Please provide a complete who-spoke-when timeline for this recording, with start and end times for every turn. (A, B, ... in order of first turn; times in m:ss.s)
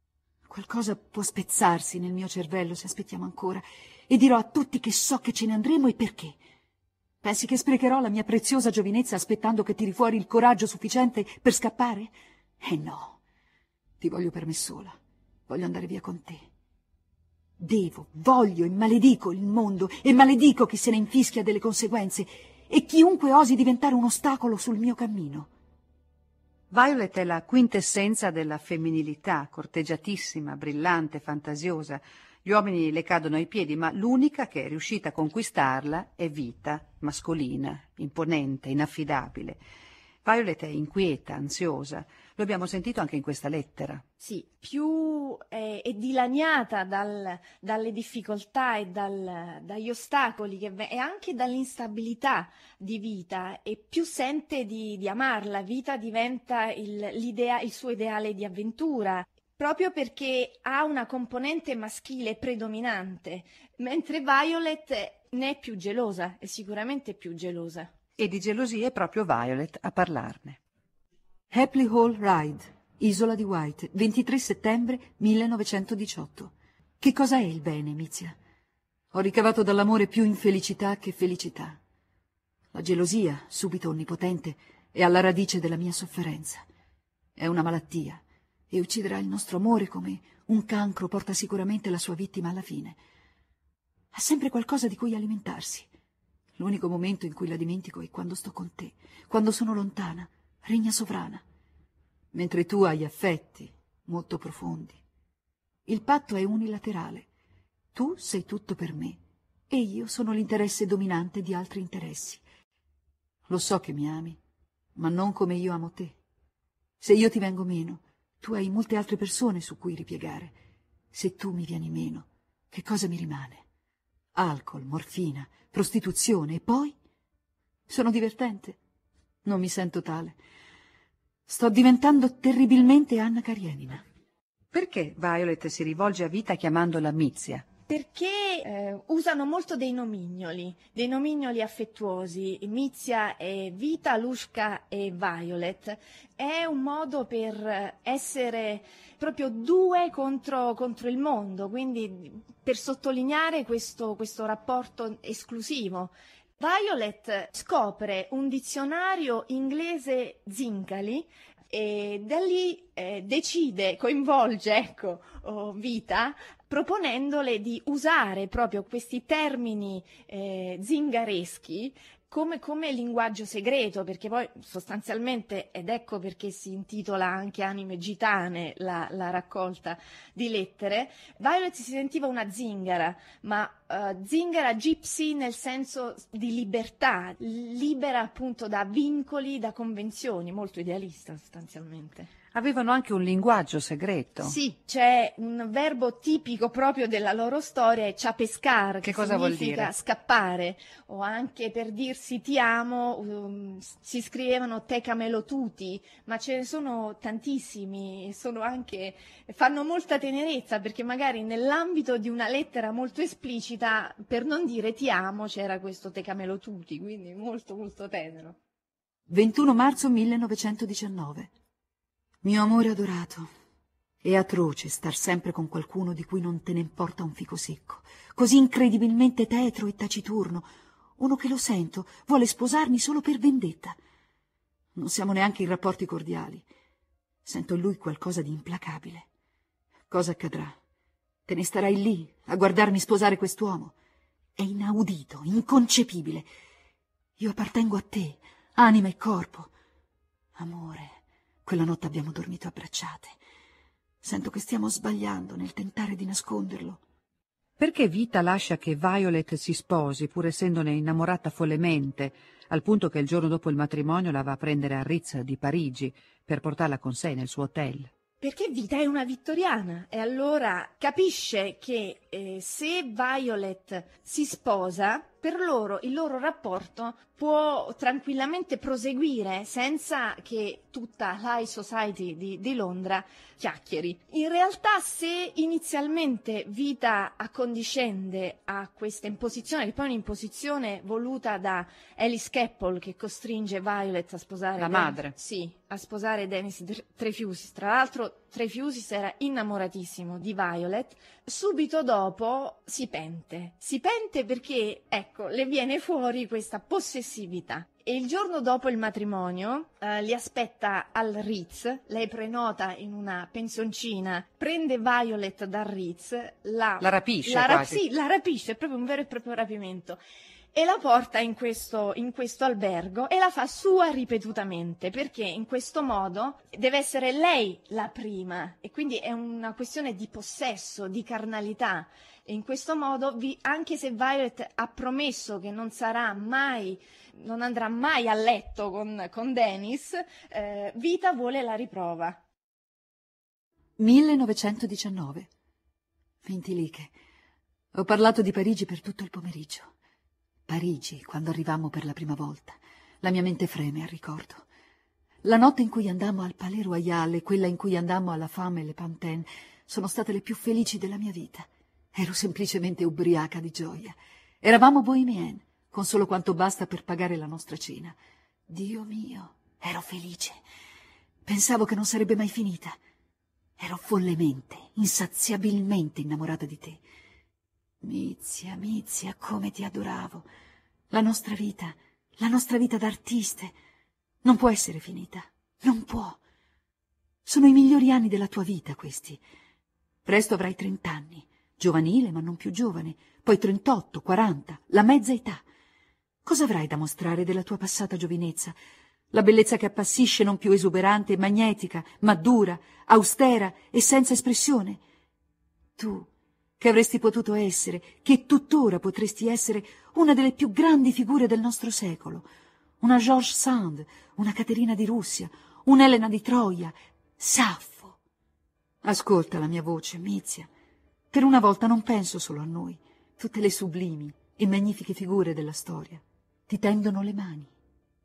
0:00.4-0:06.4 A
0:07.2-0:13.2 A
0:14.0-0:14.9 A
0:15.5-0:16.4 A
0:17.6-0:25.5 A
0:26.7-0:39.6 B
0:40.2-0:44.0 B
0:44.2-1:07.9 C
1:08.2-1:10.6 B
1:11.5-1:18.4 A
1:19.1-1:21.8 A
1:22.7-1:26.6 A
1:27.4-1:33.0 A
1:34.1-1:35.9 A
1:36.6-1:41.4 A
1:42.3-1:45.0 A
1:45.8-1:47.3 A
1:47.9-1:49.2 A
1:49.7-1:52.4 A
1:53.5-1:54.4 A
1:55.0-1:56.2 A
1:57.0-2:00.6 A
2:01.1-2:03.6 A
2:04.3-2:06.9 A
2:07.9-2:08.8 A
2:09.4-2:10.4 A
2:11.5-2:14.0 A
2:14.7-2:17.7 B
2:17.9-3:12.3 C
3:12.5-3:14.6 B
3:14.4-3:38.6 C
3:19.0-3:19.9 B
3:39.3-3:41.5 A
3:42.4-3:43.5 A
3:44.2-3:50.7 A
3:51.2-3:54.0 A
3:54.9-3:56.7 A
3:57.4-3:59.3 A
4:00.1-4:00.8 A
4:01.4-4:03.9 A
4:04.6-4:06.5 A
4:07.4-4:09.7 A
4:10.6-4:13.4 A
4:14.2-4:17.0 A
4:17.8-4:28.1 B
4:28.4-5:20.2 C
4:54.8-4:55.3 B
5:17.0-5:18.0 B
5:20.7-5:42.4 C
5:44.0-5:45.5 A
5:46.4-5:47.1 A
5:47.9-5:49.9 A
5:50.7-5:54.6 A
5:55.4-6:08.2 A
6:08.7-6:10.6 A
6:11.4-6:13.0 A
6:13.8-6:17.0 A
6:18.0-6:20.4 A
6:21.1-6:23.8 A
6:24.4-6:26.4 A
6:27.4-6:29.4 A
6:30.2-6:35.6 A
6:36.4-6:38.8 A
6:39.3-6:45.0 A
6:46.0-6:46.3 A
6:46.8-6:52.4 A
6:53.0-6:58.2 A
6:59.0-7:00.7 A
7:01.3-7:07.7 A